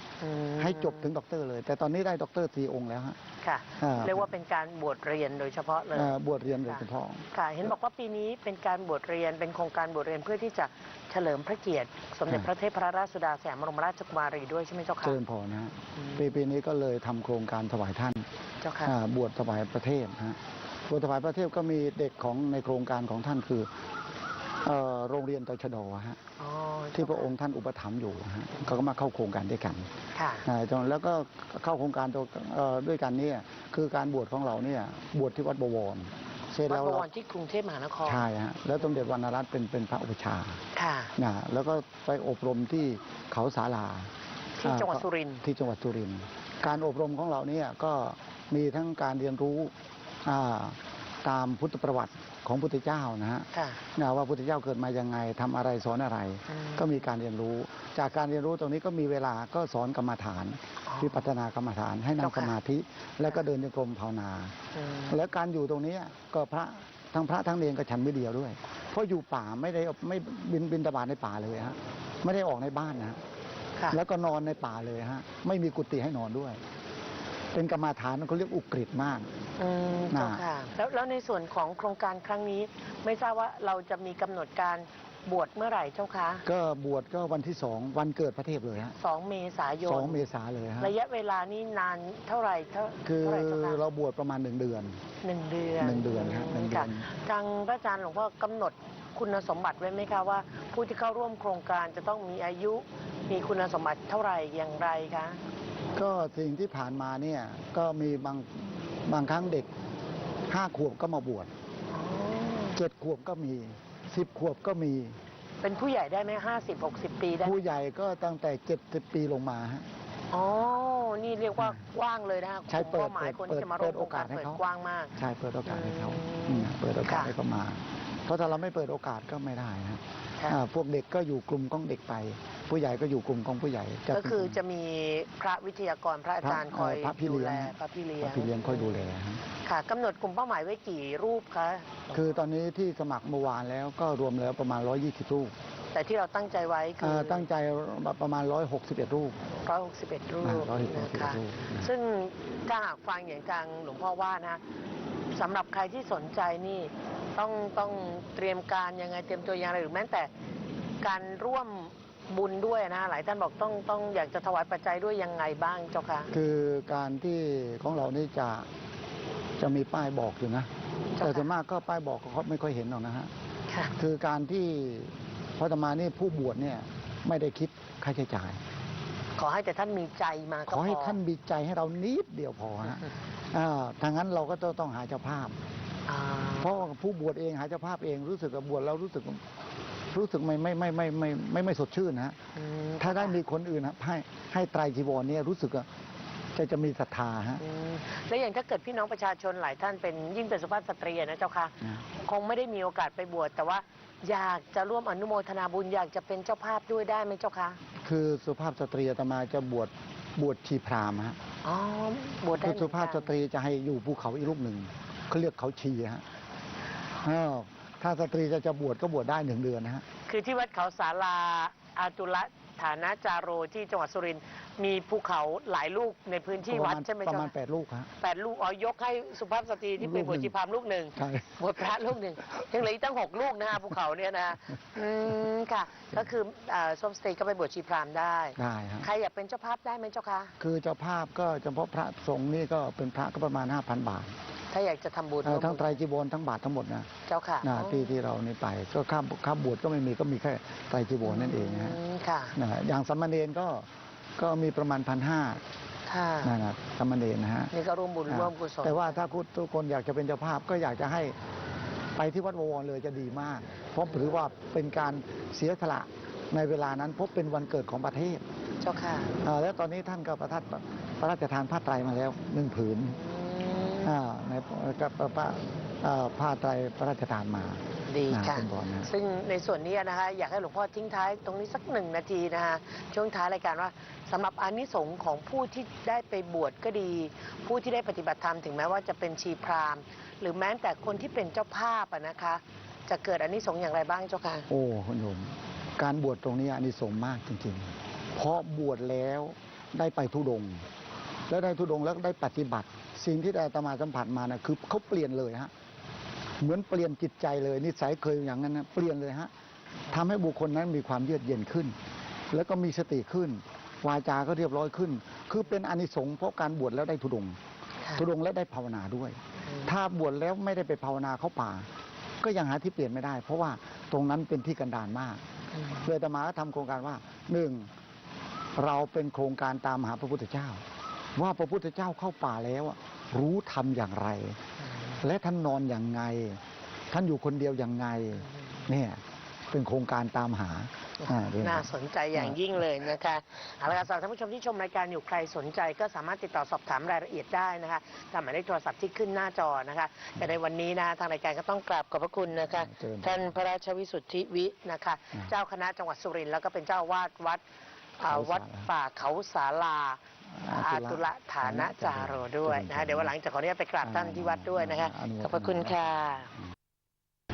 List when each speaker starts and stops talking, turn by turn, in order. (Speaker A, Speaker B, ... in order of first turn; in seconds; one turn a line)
Speaker A: 0.2-1.1
Speaker B: 0.6-3.2
Speaker A: 3.4-6.8
Speaker B: 3.8-4.3
Speaker B: 5.9-7.2
Speaker A: 7.3-15.2
Speaker B: 15.0-18.2
Speaker A: 15.9-16.3
Speaker A: 18.6-18.9
Speaker B: 18.8-23.7
Speaker B: 24.6-26.2
Speaker A: 26.4-27.3
Speaker B: 26.9-29.9
Speaker A: 30.1-30.4
Speaker B: 30.4-37.1
Speaker A: 36.7-38.2
Speaker B: 38.0-40.6
Speaker A: 40.7-41.1
Speaker B: 41.2-44.1
Speaker A: 44.6-45.4
Speaker B: 44.6-49.7
Speaker B: 50.2-64.5
Speaker A: 53.5-53.8
Speaker A: 56.5-57.0
Speaker A: 60.9-61.2
Speaker A: 62.2-62.5
Speaker A: 64.7-65.2
Speaker B: 65.1-73.2
Speaker B: 73.9-76.6
Speaker B: 77.5-79.3
Speaker A: 79.6-86.4
Speaker B: 80.1-80.4
Speaker B: 86.4-89.0
Speaker A: 89.0-90.2
Speaker B: 89.8-90.9
Speaker A: 90.8-93.8
Speaker B: 93.0-95.0
Speaker A: 95.2-105.4
Speaker B: 95.8-97.1
Speaker B: 105.9-109.7
Speaker B: 110.5-111.5
Speaker A: 111.9-112.8
Speaker B: 112.7-115.2
Speaker A: 115.6-117.6
Speaker B: 117.4-119.9
Speaker A: 120.3-125.1
Speaker B: 122.7-124.6
Speaker B: 125.2-134.6
Speaker A: 125.7-127.3
Speaker A: 134.1-138.9
Speaker B: 136.4-139.4
Speaker A: 139.6-142.2
Speaker B: 142.1-145.5
Speaker A: 145.9-147.4
Speaker B: 147.0-149.4
Speaker A: 149.6-154.6
Speaker B: 150.4-151.9
Speaker A: 155.3-160.3
Speaker A: 161.0-166.3
Speaker B: 166.3-168.7
Speaker B: 169.6-173.3
Speaker A: 171.2-171.5
Speaker B: 173.9-178.6
Speaker A: 179.4-181.2
Speaker B: 180.7-185.6
Speaker A: 186.1-186.8
Speaker B: 186.6-189.4
Speaker B: 190.1-192.4
Speaker A: 192.6-193.4
Speaker B: 193.0-195.9
Speaker B: 196.5-197.6
Speaker A: 197.6-207.8
Speaker B: 208.0-211.4
Speaker A: 211.6-213.3
Speaker B: 212.6-216.2
Speaker B: 217.2-220.0
Speaker A: 220.3-227.5
Speaker B: 226.6-228.1
Speaker A: 228.2-240.5
Speaker B: 230.0-230.5
Speaker B: 231.2-231.5
Speaker B: 238.6-239.1
Speaker B: 240.6-244.3
Speaker A: 244.7-246.0
Speaker B: 245.4-247.1
Speaker A: 247.3-248.2
Speaker B: 247.6-252.0
Speaker A: 251.2-252.6
Speaker B: 252.5-255.6
Speaker A: 256.1-256.6
Speaker B: 256.4-257.7
Speaker A: 257.7-259.3
Speaker B: 258.3-261.4
Speaker B: 262.1-268.4
Speaker A: 268.8-269.3
Speaker B: 269.4-273.2
Speaker A: 273.1-274.1
Speaker B: 274.0-279.1
Speaker A: 278.1-294.7
Speaker B: 294.7-300.9
Speaker B: 301.5-305.7
Speaker B: 306.6-309.5
Speaker B: 310.1-312.0
Speaker B: 312.5-317.6
Speaker B: 318.1-321.9
Speaker A: 319.6-319.9
Speaker B: 322.4-325.4
Speaker A: 325.7-326.1
Speaker B: 326.0-327.9
Speaker B: 328.7-330.8
Speaker B: 331.3-334.6
Speaker A: 334.8-335.2
Speaker B: 335.2-342.8
Speaker A: 338.4-338.8
Speaker A: 341.2-357.6
Speaker B: 352.7-353.5
Speaker A: 358.2-366.5
Speaker B: 358.2-358.9
Speaker B: 360.5-363.3
Speaker B: 364.0-366.6